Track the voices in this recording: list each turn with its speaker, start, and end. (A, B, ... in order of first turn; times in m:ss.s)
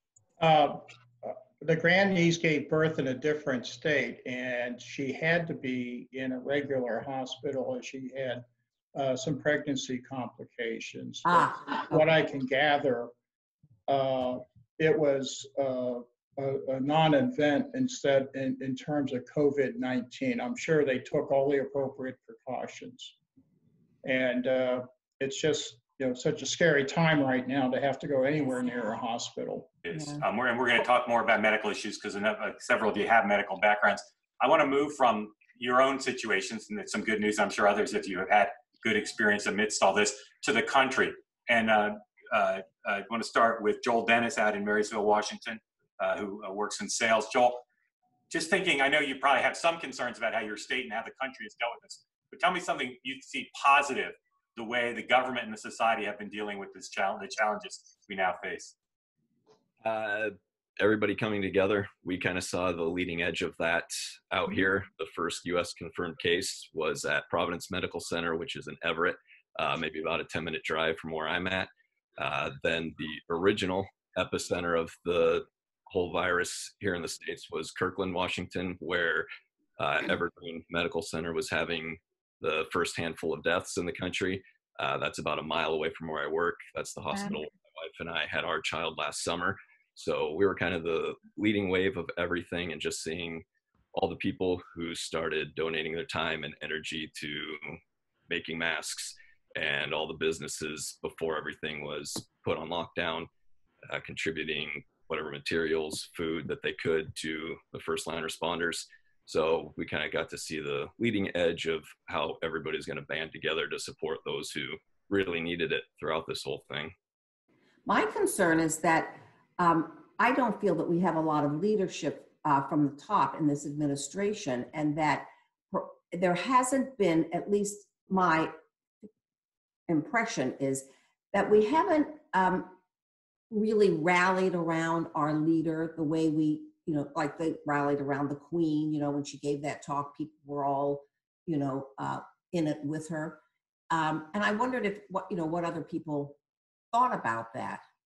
0:00.4-0:08.4 A
0:09.0-0:13.1 A
0:11.3-0:12.1 B
0:13.9-0:23.2 A
0:24.0-0:29.7 A
0:29.8-0:47.6 C
0:29.9-0:30.2 B
0:48.3-0:58.7 C
0:59.8-1:43.3 D
1:43.9-1:57.0 D
1:57.9-2:08.5 B
2:09.9-2:12.7 B
2:13.5-2:26.4 B
2:26.9-2:27.8 B